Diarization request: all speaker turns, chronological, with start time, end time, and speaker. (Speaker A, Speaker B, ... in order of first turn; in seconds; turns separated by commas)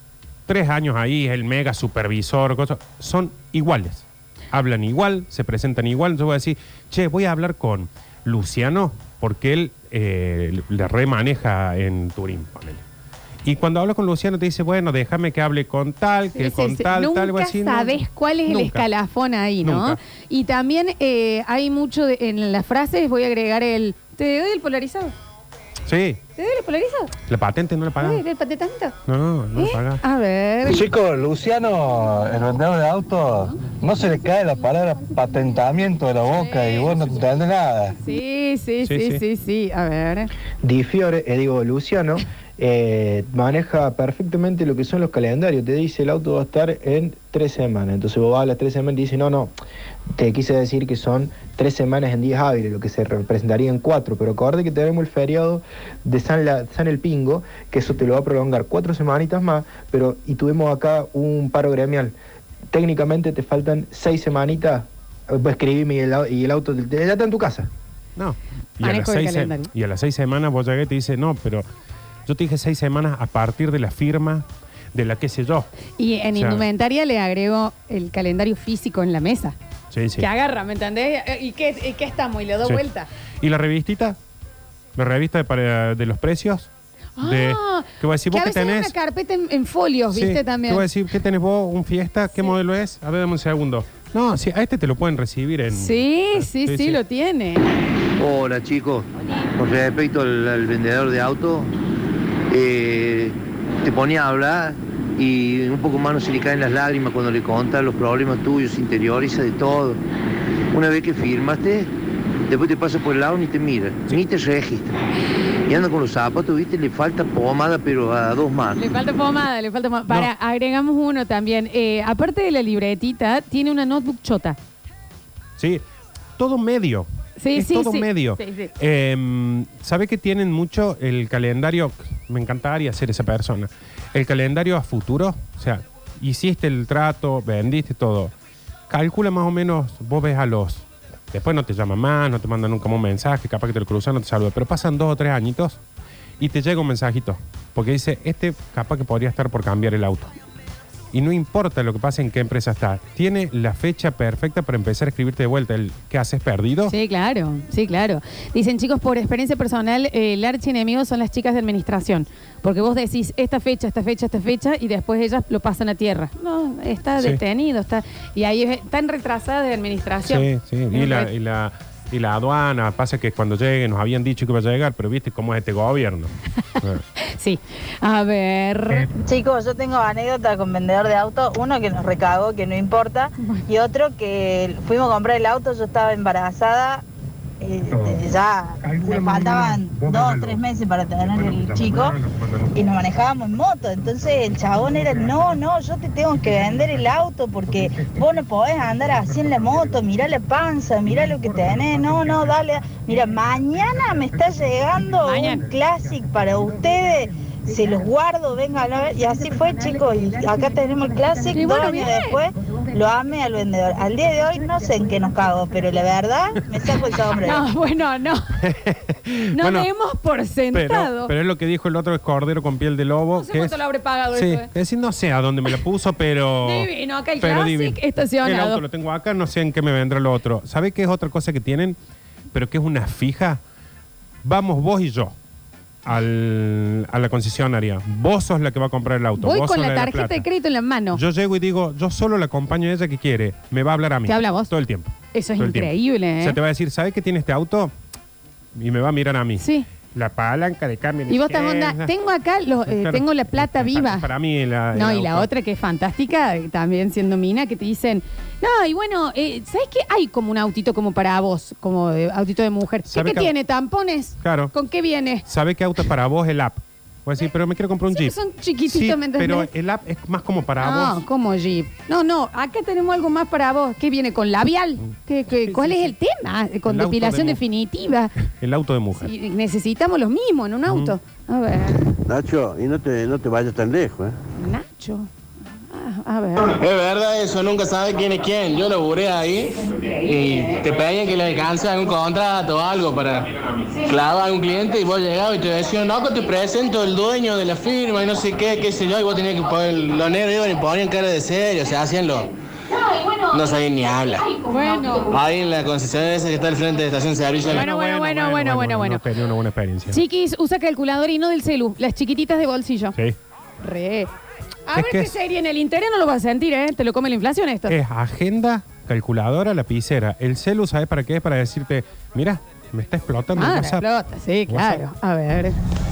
Speaker A: 0.5-12.8, Speaker A: 13.4-18.9, Speaker B: 16.4-25.1, Speaker A: 19.6-20.0, Speaker A: 25.9-26.2, Speaker B: 26.4-27.1, Speaker A: 27.3-28.2, Speaker B: 28.0-28.9, Speaker A: 29.1-30.0, Speaker B: 29.6-30.9, Speaker C: 31.1-31.8, Speaker C: 33.0-33.5, Speaker C: 34.5-37.2, Speaker B: 36.2-37.4, Speaker B: 38.0-40.3, Speaker A: 38.9-39.2, Speaker D: 40.6-49.5, Speaker D: 50.2-62.1, Speaker D: 62.7-67.7, Speaker A: 68.2-71.6, Speaker B: 68.8-69.7, Speaker A: 72.3-75.7, Speaker B: 76.0-79.5, Speaker A: 76.3-76.7, Speaker A: 79.9-80.3, Speaker B: 80.2-83.1, Speaker A: 83.4-84.2, Speaker A: 85.0-86.7, Speaker B: 87.2-90.9, Speaker A: 87.2-88.9, Speaker A: 90.1-97.0, Speaker B: 92.3-92.5, Speaker B: 95.7-97.6, Speaker E: 98.2-99.1, Speaker E: 99.6-101.7, Speaker E: 102.5-110.0, Speaker E: 110.7-111.9, Speaker E: 112.5-114.9, Speaker E: 115.7-118.8, Speaker B: 118.8-124.6, Speaker A: 126.4-138.3, Speaker B: 127.4-128.7, Speaker A: 138.9-145.8, Speaker A: 146.4-150.3, Speaker A: 151.1-156.9, Speaker B: 156.9-171.3, Speaker A: 170.3-177.0, Speaker B: 177.2-179.1, Speaker F: 179.2-187.0, Speaker F: 187.6-192.2, Speaker F: 192.7-217.6, Speaker B: 205.2-205.6, Speaker B: 211.5-212.4, Speaker B: 217.4-218.6, Speaker A: 218.6-219.9, Speaker B: 219.5-221.3, Speaker A: 220.7-223.8, Speaker B: 223.4-224.7, Speaker A: 224.3-232.0, Speaker B: 226.6-228.8, Speaker A: 232.5-233.6, Speaker A: 234.4-235.3, Speaker A: 236.1-240.5, Speaker B: 239.4-241.2, Speaker A: 241.1-247.9, Speaker B: 244.3-244.7, Speaker B: 245.3-246.6, Speaker A: 248.8-252.1, Speaker B: 249.6-249.9, Speaker B: 251.3-254.3, Speaker A: 252.9-255.5, Speaker B: 254.9-265.5, Speaker A: 263.1-263.5, Speaker A: 264.4-264.7, Speaker A: 265.5-271.2, Speaker B: 268.1-269.7, Speaker B: 270.8-278.3, Speaker A: 275.7-276.1, Speaker A: 276.9-277.6, Speaker A: 278.6-279.3, Speaker B: 279.2-282.1, Speaker A: 280.9-281.2, Speaker G: 282.3-284.3, Speaker B: 284.6-285.3, Speaker B: 285.9-286.8, Speaker H: 286.8-289.7, Speaker H: 290.2-302.5, Speaker H: 303.5-304.5, Speaker B: 304.6-305.4, Speaker H: 305.3-307.8, Speaker A: 307.7-310.2, Speaker B: 307.7-309.2, Speaker B: 310.1-313.1, Speaker B: 313.8-314.3, Speaker B: 314.9-318.0, Speaker A: 314.9-315.3, Speaker A: 317.9-324.1, Speaker B: 323.6-325.8, Speaker A: 324.7-325.0